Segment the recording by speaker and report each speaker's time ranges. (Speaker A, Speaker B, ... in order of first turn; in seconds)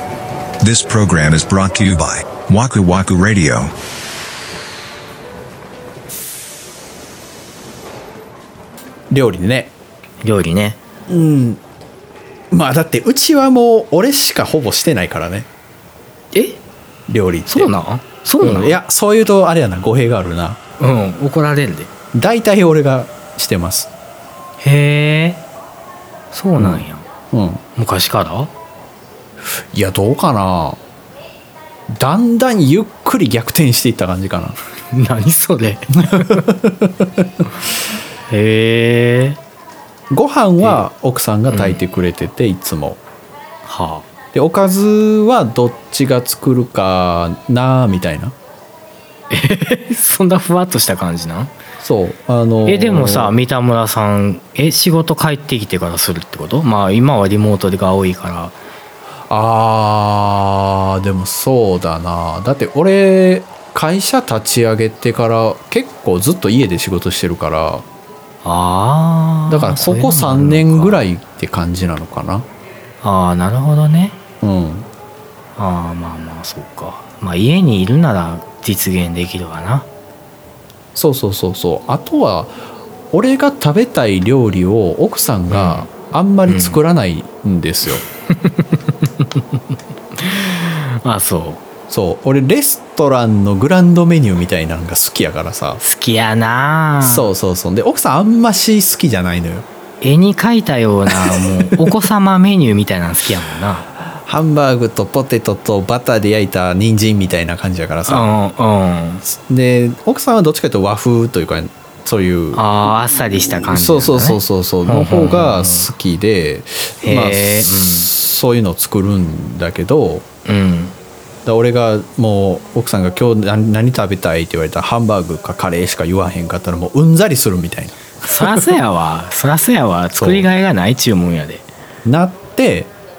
Speaker A: 0.6-3.7
Speaker B: 9.1-9.7, 11.1-11.6, 12.5-15.5, 17.1-17.7, 18.4-20.6, 22.1-23.9, 26.6-27.6, 29.7-30.8, 31.9-34.6, 36.0-37.3, 40.1-43.0, 44.3-48.3, 51.8-53.4, 59.3-67.8, 69.5-72.5, 74.4-74.9, 80.9-88.0, 91.9-95.8, 97.0-99.6, 101.1-101.9, 104.0-108.3, 109.2-112.7, 113.3-120.2, 121.4-128.8, 130.2-130.5, 132.0-132.9
Speaker C: 10.2-10.8, 16.3-16.6, 17.5-18.8, 20.8-21.9, 24.6-25.4, 26.3-27.1, 27.7-28.5, 34.9-36.5, 38.3-39.4, 41.5-41.8, 43.6-44.1, 49.3-51.5, 52.6-58.6, 68.4-71.0, 73.0-74.2, 75.5-79.9, 85.5-85.9, 86.5-86.8, 88.3-89.5, 90.2-91.6, 95.8-97.3, 100.0-103.9, 108.0-109.2, 112.5-115.9, 117.0-118.1, 120.5-121.0, 128.2-131.6